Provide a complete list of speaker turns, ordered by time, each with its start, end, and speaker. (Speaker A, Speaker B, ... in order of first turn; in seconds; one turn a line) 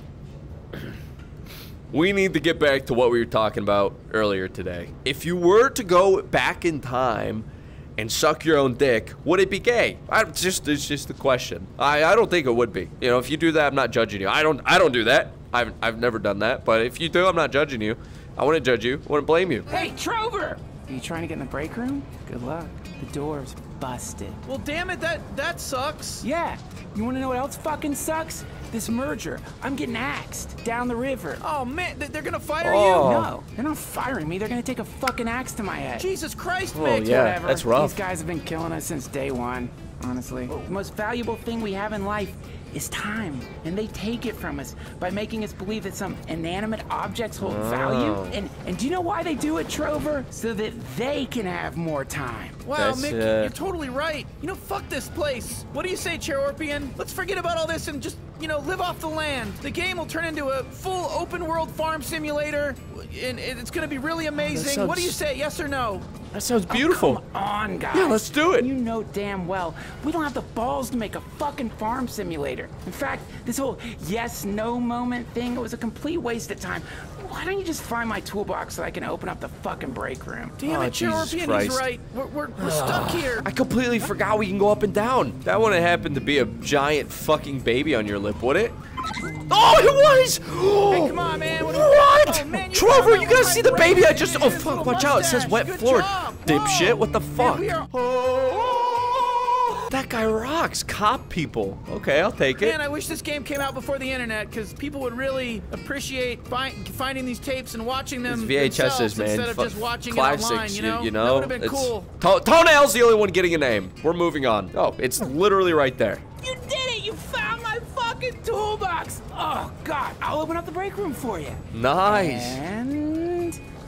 Speaker A: 1.9-19.7
Speaker B: 19.7-24.4
Speaker C: 24.5-26.3
Speaker B: 26.2-31.4
Speaker C: 31.4-33.1
Speaker A: 32.6-33.3
Speaker B: 33.0-36.1
Speaker C: 36.0-37.2
Speaker A: 36.7-38.0
Speaker B: 37.1-52.6
Speaker A: 47.4-48.4
Speaker C: 52.6-66.1
Speaker A: 52.8-53.5
Speaker A: 64.4-65.2
Speaker A: 66.3-67.2
Speaker B: 66.7-80.6
Speaker A: 67.9-68.7
Speaker C: 80.6-83.5
Speaker A: 80.7-81.9
Speaker A: 82.6-88.8
Speaker A: 89.4-102.8
Speaker C: 90.9-97.9
Speaker C: 102.6-112.1
Speaker A: 108.3-116.2
Speaker B: 116.4-123.6
Speaker A: 121.7-122.6